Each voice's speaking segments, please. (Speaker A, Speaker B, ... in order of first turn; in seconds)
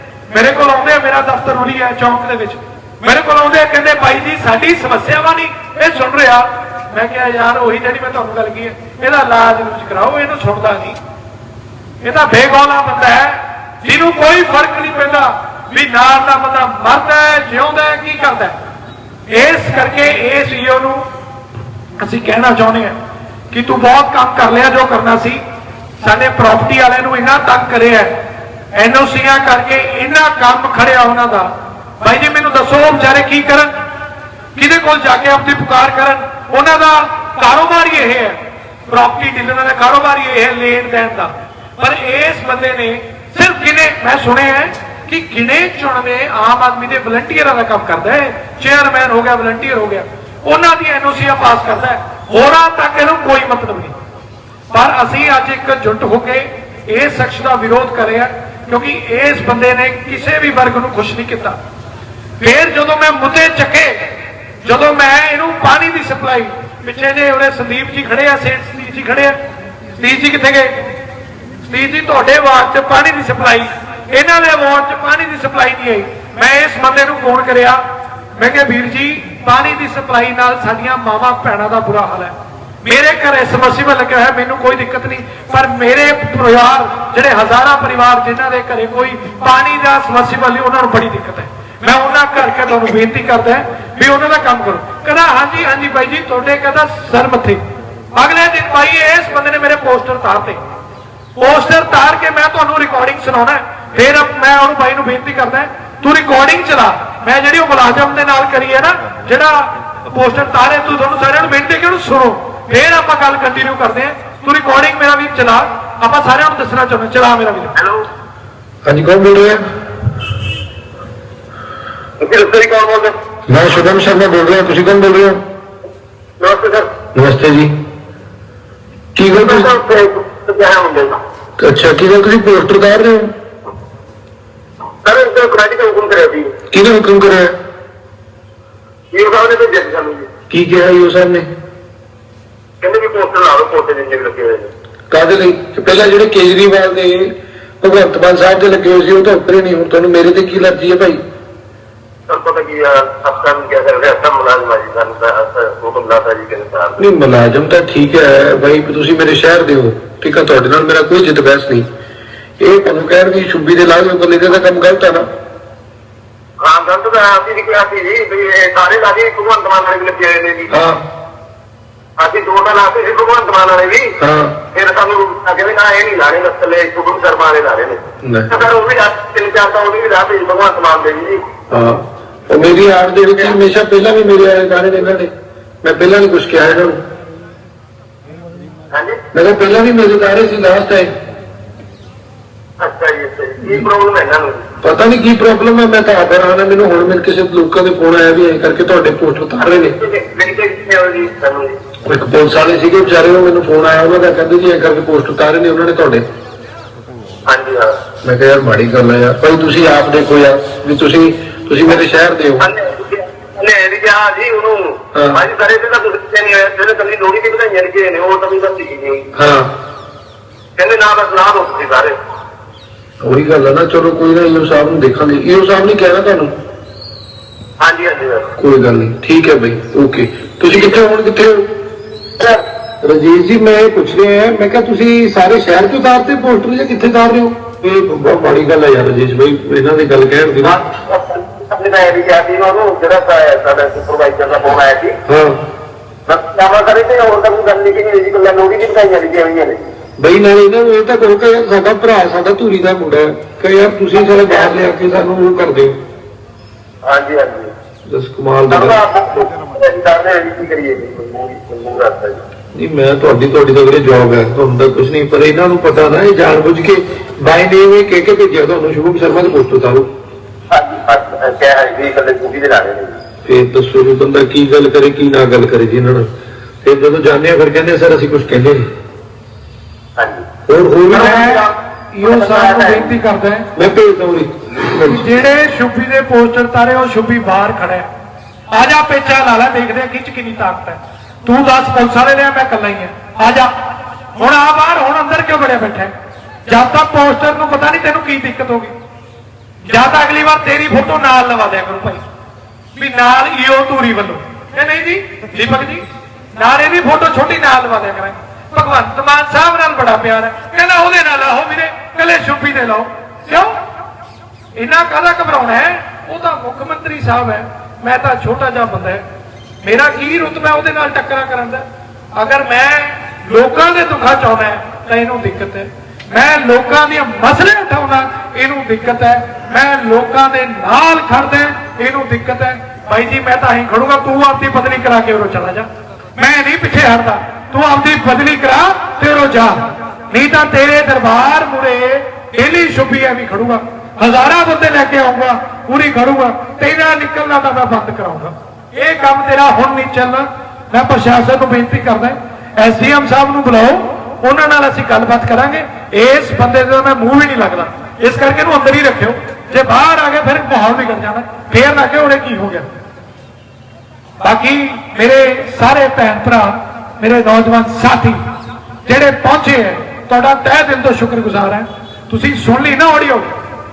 Speaker A: 0.3-11.0, 12.0-18.5, 19.3-21.0, 22.0-22.9, 23.5-25.4, 26.0-28.1, 28.7-33.8, 34.5-38.4, 38.9-53.9, 54.7-61.6, 62.4-64.1, 64.6-69.4, 70.0-70.9, 71.6-77.8, 78.4-82.3, 82.8-97.6, 98.1-100.6, 101.3-117.7, 281.1-283.7, 285.0-288.1, 288.7-293.7, 294.4-296.1, 296.7-298.9, 299.9-302.2, 302.9-313.8, 314.7-319.2, 319.8-321.8, 322.3-362.9, 364.4-368.4, 369.1-373.5
Speaker B: 117.8-118.0, 122.2-123.1, 126.4-126.9, 129.3-131.2, 135.0-136.5, 139.1-140.3, 142.8-144.7, 152.3-157.0, 166.6-170.7, 172.2-174.1, 174.7-181.4, 188.9-189.2, 192.8-194.6, 199.6-201.7, 207.5-207.9, 212.6-219.3, 220.8-222.2, 227.8-228.5, 240.6-245.2, 246.3-249.8, 254.2-254.8, 257.1-257.7, 258.7-262.4, 270.7-273.2, 280.2-280.5, 281.1-283.1
Speaker C: 118.8-119.6, 123.5-125.4, 127.1-127.7, 129.2-129.7, 131.6-133.3, 136.7-137.5, 140.5-141.5, 145.1-151.2, 157.0-161.9, 162.6-165.3, 170.7-171.0, 174.2-174.6, 178.2-178.5, 181.7-185.3, 185.8-187.0, 189.3-191.1, 194.8-199.9, 202.0-206.2, 208.2-212.7, 215.1-215.4, 219.3-219.7, 223.2-226.5, 228.6-231.7, 233.0-240.8, 245.2-245.6, 250.2-256.0, 258.1-259.0, 262.7-270.1, 273.4-276.3, 276.8-278.9, 280.7-281.4, 283.8-285.3